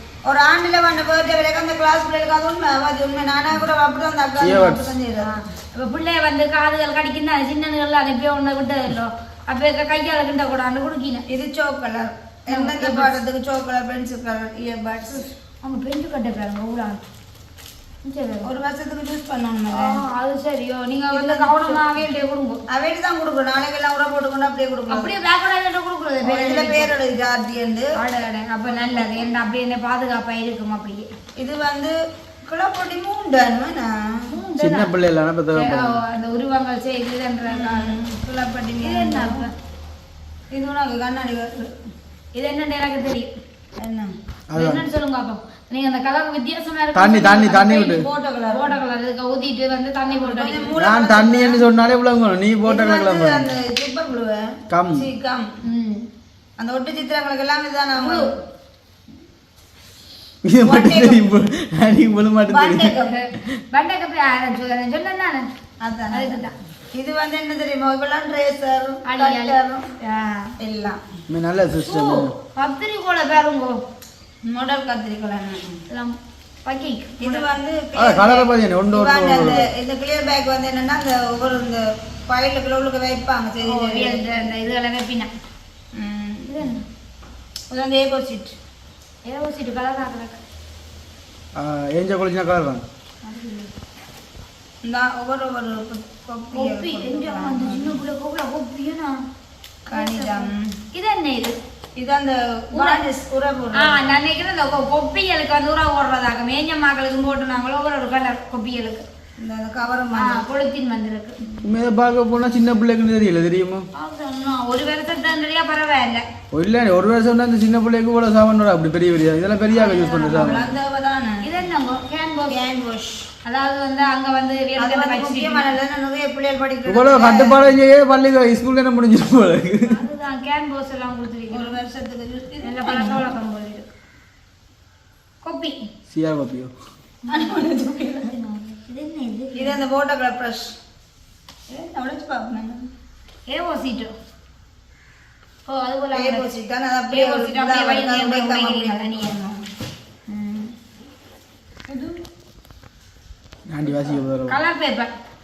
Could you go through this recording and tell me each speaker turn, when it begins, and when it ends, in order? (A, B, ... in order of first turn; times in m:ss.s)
0:00.3-0:05.4 A
0:04.4-0:04.8 B
0:05.2-0:11.2 C
0:11.3-0:15.3 A
0:12.5-0:13.2 C
0:15.6-0:17.0 C
0:18.0-0:18.5 C
0:18.4-0:20.0 A
0:19.7-0:22.6 C
0:21.1-0:21.8 A
0:22.7-0:25.1 A
0:24.9-0:26.9 C
0:26.2-0:28.0 A
0:28.0-0:31.1 C
0:28.7-0:29.3 A
0:31.4-0:32.0 A
0:32.5-0:34.2 A
0:34.3-0:34.9 C
0:34.6-0:36.0 B
0:35.6-0:39.5 C
0:37.5-0:39.5 A
0:40.5-0:41.8 A
0:42.3-0:43.3 C
0:43.8-0:44.1 A
0:44.5-0:44.8 B
0:44.5-0:50.7 C
0:46.9-0:48.1 B
0:47.7-0:48.7 A
0:50.1-0:51.6 A
0:50.8-0:53.5 B
0:52.6-0:55.5 A
0:54.7-0:55.0 B
0:55.6-0:56.1 C
0:56.6-0:58.3 A
0:58.0-0:58.3 C
1:00.4-1:03.0 B
1:00.6-1:01.2 A
1:02.5-1:03.2 A
1:03.0-1:05.5 C
1:05.8-1:09.9 A
1:06.1-1:06.6 C
1:09.1-1:10.5 C
1:10.6-1:11.0 A
1:11.3-1:12.3 B
1:11.8-1:13.8 C
1:14.4-1:15.8 A
1:15.9-1:17.5 C
1:17.2-1:24.3 A
1:18.0-1:19.7 B
1:23.6-1:25.3 C
1:26.0-1:26.7 A
1:26.5-1:26.8 C
1:27.7-1:28.6 A
1:29.2-1:30.4 C
1:31.6-1:32.8 B
1:33.2-1:33.7 C
1:34.8-1:38.0 A
1:36.5-1:39.2 C
1:39.9-1:41.6 C
1:39.9-1:40.7 A
1:42.0-1:44.0 A
1:42.8-1:43.0 C
1:43.8-1:49.0 C
1:49.4-1:50.4 A
1:50.2-1:51.5 C
1:51.6-1:53.9 B
1:54.0-1:56.2 C
1:56.5-2:00.7 B
1:59.7-2:00.6 C
1:59.9-2:01.5 A
2:01.4-2:02.6 C
2:02.5-2:03.3 A
2:03.4-2:05.7 C
2:04.8-2:07.6 A
2:06.9-2:10.0 B
2:09.8-2:11.8 C
2:11.5-2:13.2 A
2:12.6-2:13.9 C
2:15.4-2:15.9 C
2:16.1-2:16.7 B
2:17.3-2:18.4 A
2:17.3-2:19.8 C
2:19.6-2:20.8 A
2:21.7-2:22.9 A
2:23.5-2:24.1 C
2:25.7-2:29.4 C
2:26.1-2:29.6 A
2:30.3-2:30.7 C
2:31.9-2:32.2 C
2:33.7-2:34.6 B
2:34.3-2:35.1 C